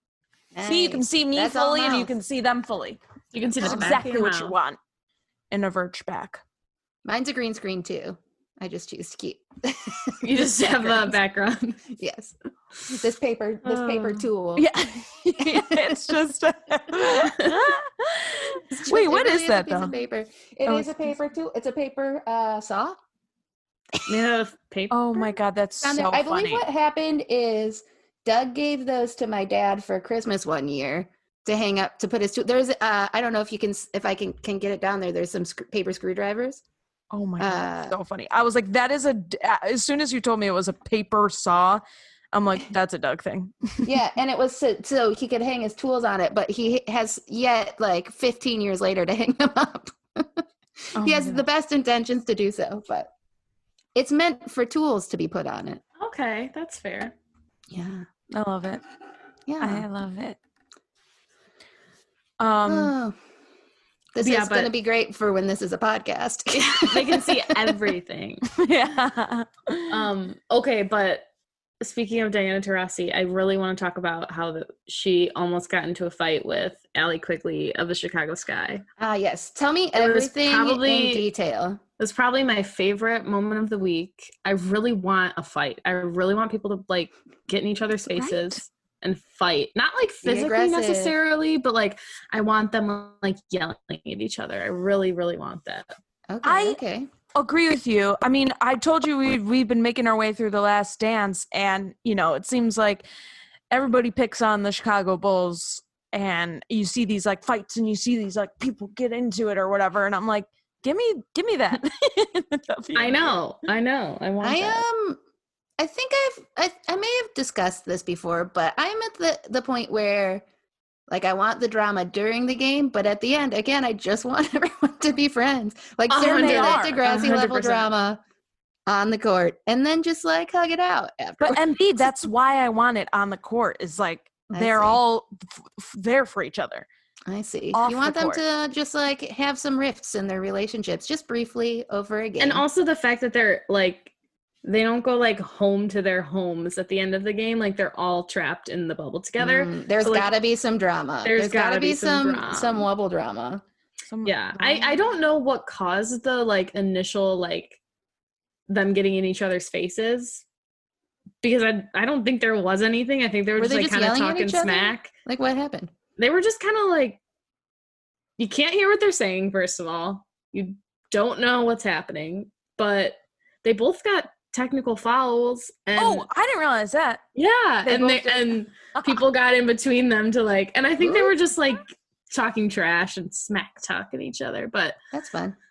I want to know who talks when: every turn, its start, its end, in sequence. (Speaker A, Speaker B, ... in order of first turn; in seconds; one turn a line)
Speaker A: 0.5-2.1
Speaker B: 0.6-3.0
Speaker C: 3.3-4.5
Speaker B: 3.6-4.8
Speaker A: 3.6-4.0
Speaker B: 5.5-6.4
Speaker A: 7.0-11.0
Speaker C: 10.2-11.8
Speaker A: 11.9-12.3
Speaker A: 12.9-14.7
Speaker C: 13.7-14.2
Speaker B: 14.6-19.9
Speaker A: 15.4-16.1
Speaker C: 17.2-17.7
Speaker A: 18.7-23.0
Speaker B: 20.7-21.1
Speaker C: 24.1-25.0
Speaker B: 24.9-26.6
Speaker A: 25.8-36.6
Speaker B: 37.1-41.8
Speaker A: 37.4-37.9
Speaker B: 42.3-44.0
Speaker A: 43.8-50.4
Speaker A: 50.9-53.1
Speaker B: 51.0-51.4
Speaker A: 53.9-55.8
Speaker C: 56.0-57.1
Speaker A: 57.7-58.0
Speaker B: 58.3-58.8
Speaker A: 59.5-59.9
Speaker B: 59.6-60.4
Speaker B: 62.4-62.9
Speaker A: 62.6-63.1
Speaker A: 64.1-67.7
Speaker C: 64.2-64.7
Speaker C: 66.5-68.5
Speaker B: 68.5-70.0
Speaker C: 69.9-71.3
Speaker C: 71.8-78.8
Speaker A: 79.0-81.8
Speaker C: 79.9-81.2
Speaker C: 82.0-95.9
Speaker B: 88.1-88.6
Speaker A: 90.2-91.1
Speaker A: 96.3-97.1
Speaker B: 96.4-96.8
Speaker B: 97.3-103.0
Speaker B: 103.7-113.4
Speaker C: 112.9-114.8
Speaker A: 114.4-115.2
Speaker A: 115.8-120.4
Speaker A: 121.1-128.2
Speaker C: 126.1-127.9
Speaker B: 126.2-127.0
Speaker A: 128.9-131.6
Speaker B: 131.4-136.8
Speaker A: 134.5-135.0
Speaker A: 137.3-142.6
Speaker B: 137.7-138.4
Speaker C: 142.4-144.1
Speaker C: 144.6-150.3
Speaker A: 149.4-153.6
Speaker C: 151.2-152.9
Speaker B: 154.1-155.0
Speaker C: 154.2-157.8
Speaker C: 158.7-160.4
Speaker C: 161.4-165.1
Speaker A: 163.6-165.9
Speaker C: 166.2-167.2
Speaker C: 168.4-176.2
Speaker B: 176.0-177.2
Speaker C: 177.3-184.9
Speaker B: 177.8-179.2
Speaker A: 181.0-181.3
Speaker A: 185.1-185.6